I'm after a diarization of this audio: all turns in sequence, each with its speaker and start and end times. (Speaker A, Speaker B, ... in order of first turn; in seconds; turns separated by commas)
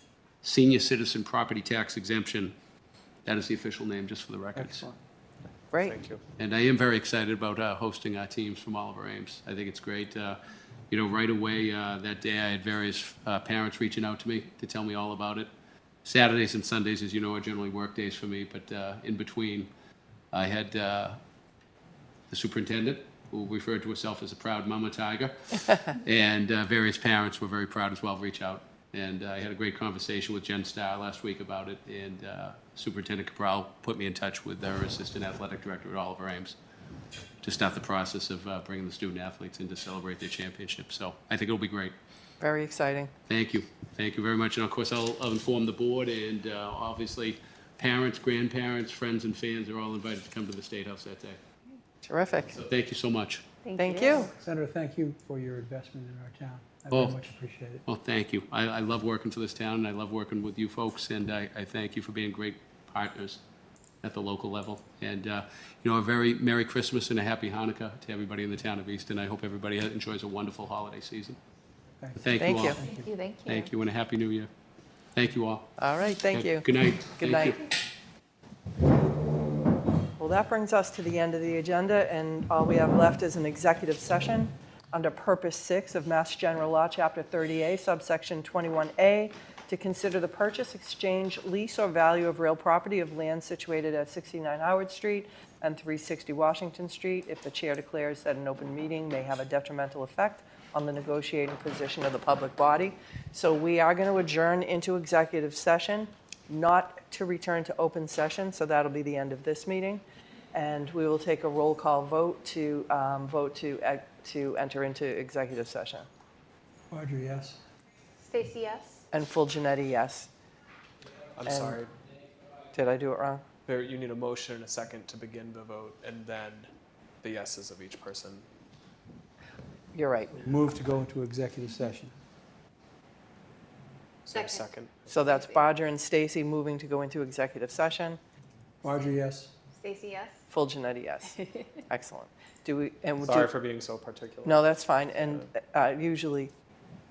Speaker A: 0.4-2.5, Speaker A: 3.2-4.8, Speaker B: 4.5-5.0, Speaker C: 5.8-6.2, Speaker A: 6.4-15.5, Speaker A: 16.0-19.7, Speaker A: 20.3-21.2, Speaker A: 22.3-36.5, Speaker A: 37.4-41.9, Speaker D: 42.4-43.1, Speaker A: 43.3-51.4, Speaker D: 52.0-52.5, Speaker A: 52.5-53.4, Speaker E: 53.6-54.3, Speaker D: 53.8-54.3, Speaker B: 54.4-57.8, Speaker A: 56.9-57.2, Speaker A: 57.9-63.4, Speaker A: 64.0-71.4, Speaker B: 72.0-73.1, Speaker A: 72.2-72.8, Speaker D: 72.4-72.8, Speaker E: 72.8-73.7, Speaker A: 73.5-74.5, Speaker A: 75.1-75.7, Speaker D: 75.8-77.6, Speaker A: 76.3-77.6, Speaker D: 80.2-116.1, Speaker B: 116.9-117.6, Speaker E: 118.2-119.0, Speaker D: 119.1-120.3, Speaker C: 121.4-121.9, Speaker D: 121.5-121.8, Speaker D: 122.7-123.4, Speaker C: 123.7-126.7, Speaker C: 127.2-128.4, Speaker D: 129.9-130.5, Speaker B: 130.4-132.1, Speaker C: 134.2-135.2, Speaker E: 134.3-134.7, Speaker D: 135.1-138.2, Speaker E: 135.3-135.7, Speaker B: 138.8-139.5, Speaker E: 139.7-140.4, Speaker D: 140.5-143.5, Speaker C: 143.2-144.7, Speaker D: 144.4-146.5